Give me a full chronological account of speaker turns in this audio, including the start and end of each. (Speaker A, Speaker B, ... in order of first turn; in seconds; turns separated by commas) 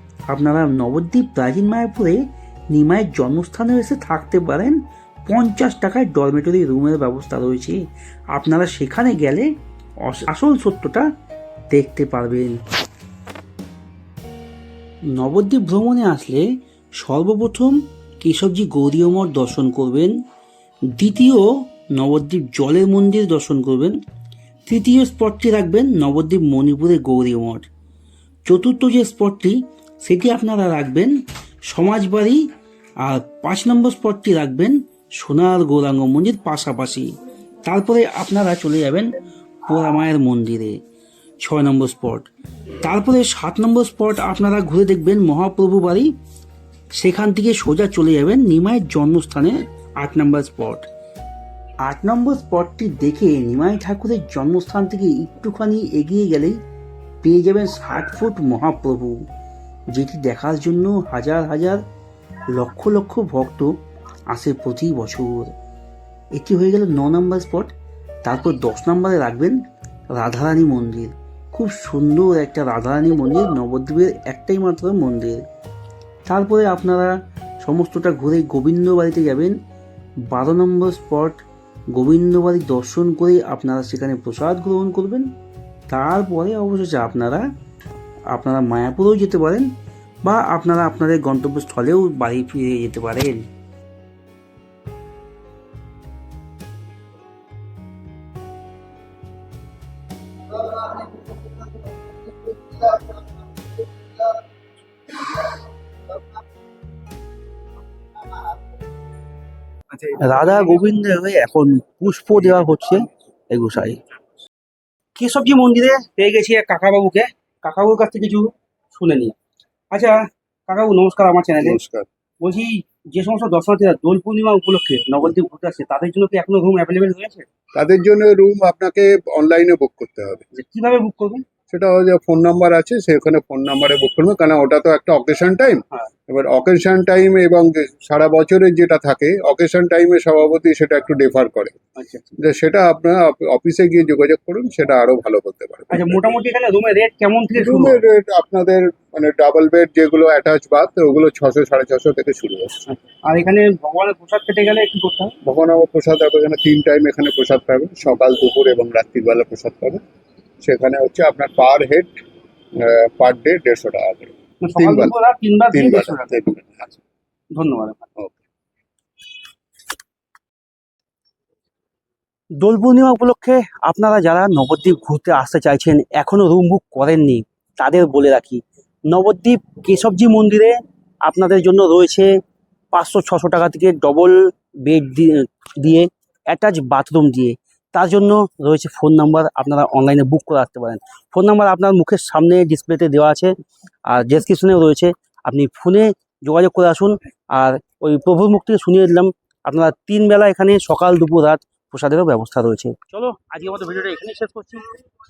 Speaker A: 0.3-7.8, Speaker A: 8.3-9.5, Speaker A: 10.1-11.1, Speaker A: 11.7-12.6, Speaker A: 15.2-16.4, Speaker A: 17.0-20.1, Speaker A: 20.9-23.9, Speaker A: 24.6-27.7, Speaker A: 28.5-31.1, Speaker A: 31.7-32.4, Speaker A: 33.0-37.1, Speaker A: 37.6-39.1, Speaker A: 39.7-40.8, Speaker A: 41.4-42.3, Speaker A: 42.8-46.1, Speaker A: 47.0-50.9, Speaker A: 51.8-56.6, Speaker A: 57.2-59.2, Speaker A: 59.9-61.8, Speaker A: 62.5-63.7, Speaker A: 64.3-65.5, Speaker A: 66.3-67.7, Speaker A: 68.2-69.6, Speaker A: 70.1-75.4, Speaker A: 76.2-79.5, Speaker A: 80.3-85.3, Speaker A: 85.9-87.4, Speaker A: 88.3-89.7, Speaker A: 90.2-93.4, Speaker B: 110.0-114.0, Speaker B: 115.2-119.3, Speaker B: 119.9-121.8, Speaker C: 121.6-122.1, Speaker B: 122.4-127.5, Speaker C: 127.7-130.4, Speaker B: 130.5-131.4, Speaker C: 131.7-141.8, Speaker B: 142.0-142.2, Speaker C: 142.4-146.2, Speaker B: 145.9-148.0, Speaker C: 147.6-152.8, Speaker B: 152.9-155.3, Speaker C: 155.4-160.0, Speaker C: 160.6-162.2, Speaker C: 162.8-165.1, Speaker B: 164.6-166.3, Speaker C: 165.7-167.0, Speaker B: 167.5-168.0, Speaker B: 172.6-182.3, Speaker B: 182.9-193.5, Speaker B: 194.1-204.8